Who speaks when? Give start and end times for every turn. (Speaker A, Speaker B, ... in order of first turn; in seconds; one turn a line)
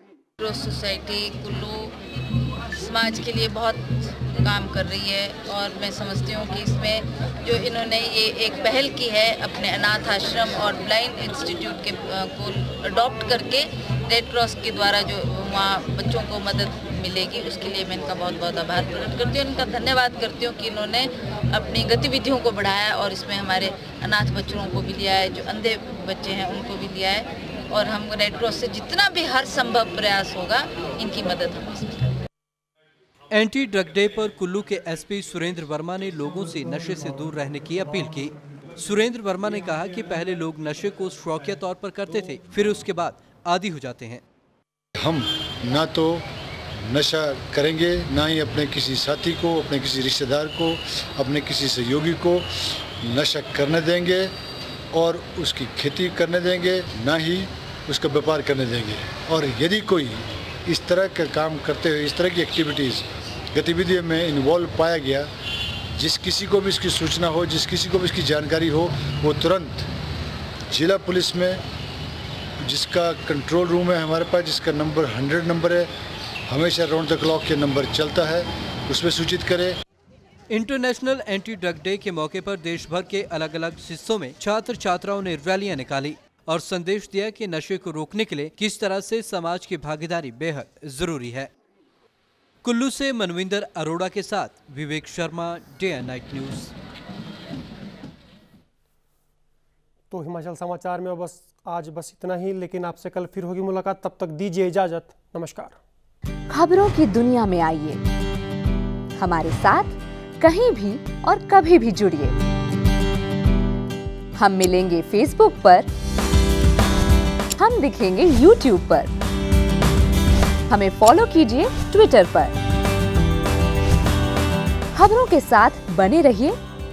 Speaker A: 0.4-1.9
Speaker A: 2.7-32.2
Speaker B: 33.3-44.2
Speaker C: 45.0-46.2
Speaker C: 46.9-52.4
Speaker C: 53.0-54.3
Speaker C: 54.9-65.3
Speaker C: 65.9-69.9
Speaker C: 70.7-71.6
Speaker C: 72.6-75.9
Speaker C: 76.5-79.8
Speaker B: 80.5-91.5
Speaker B: 92.6-96.7
Speaker D: 100.1-105.8
Speaker E: 106.5-108.0
Speaker E: 109.2-112.3
Speaker E: 114.4-115.9
Speaker E: 117.6-119.1
Speaker E: 120.7-122.5
Speaker E: 124.9-126.6